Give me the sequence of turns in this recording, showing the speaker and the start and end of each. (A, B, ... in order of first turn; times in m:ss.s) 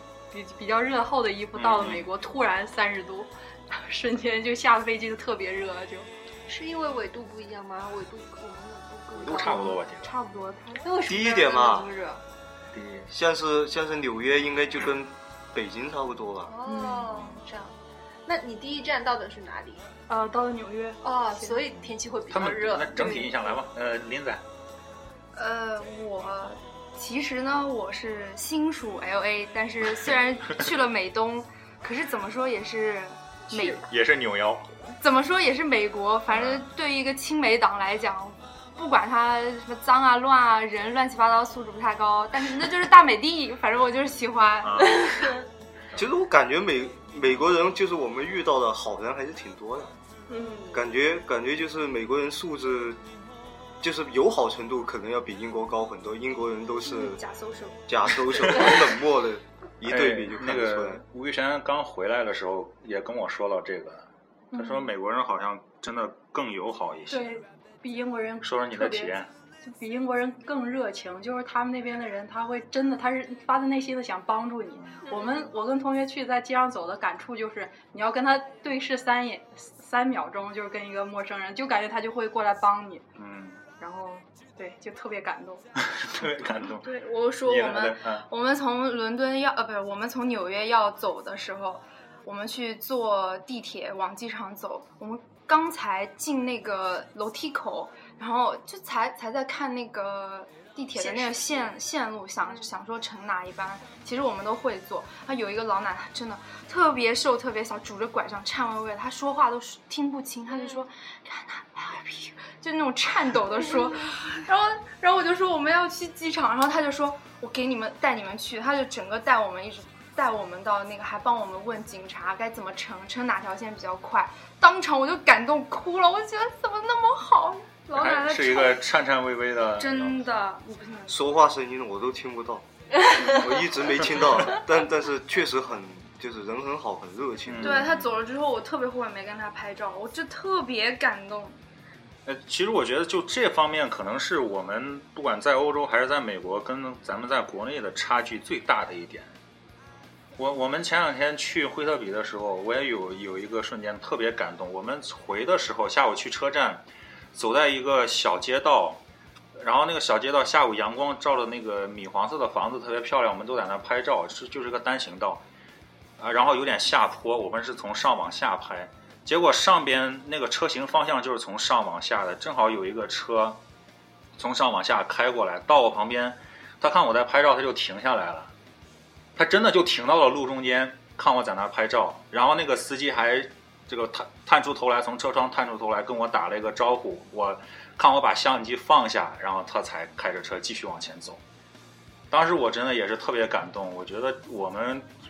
0:00.3-0:06.1 A
0:01.5-0:02.1 B
0:06.5-0:09.8 C
0:09.2-0:10.1 B
0:10.2-0:10.8 D
0:10.7-0:12.2 C
0:11.1-0:11.9 E
0:12.7-0:13.1 B
0:13.1-0:16.5 E
0:16.5-0:19.9 C
0:16.6-0:17.4 A
0:20.1-0:21.7 A
0:21.0-0:23.6 C
0:21.8-0:24.4 B
0:25.3-0:33.9 D
0:33.8-0:34.7 B
0:34.9-0:45.1 D
0:36.3-0:36.6 B
0:44.6-0:45.3 B
0:44.8-0:45.4 C
0:45.9-0:49.9 E
0:50.3-0:50.7 C
0:50.7-0:53.0 E
0:53.8-0:57.2 E
0:56.8-0:58.1 D
0:57.9-1:01.0 E
0:59.8-1:07.4 B
1:04.5-1:04.9 A
1:07.1-1:23.1 A
1:08.4-1:09.3 B
1:14.8-1:15.0 B
1:15.0-1:15.5 C
1:23.2-1:23.6 B
1:23.8-1:25.7 A
1:25.8-1:26.9 B
1:26.8-2:08.8 D
1:27.4-1:28.3 B
1:41.0-1:41.7 C
2:07.9-2:10.2 B
2:09.8-2:11.2 D
2:11.1-2:17.9 E
2:13.0-2:13.3 C
2:17.4-2:18.1 B
2:17.6-2:21.6 D
2:22.2-2:29.3 B
2:30.4-2:39.0 B
2:39.5-2:45.4 B
2:46.2-2:53.6 B
2:54.4-2:58.5 B
2:59.4-3:11.4 B
3:12.3-3:15.1 B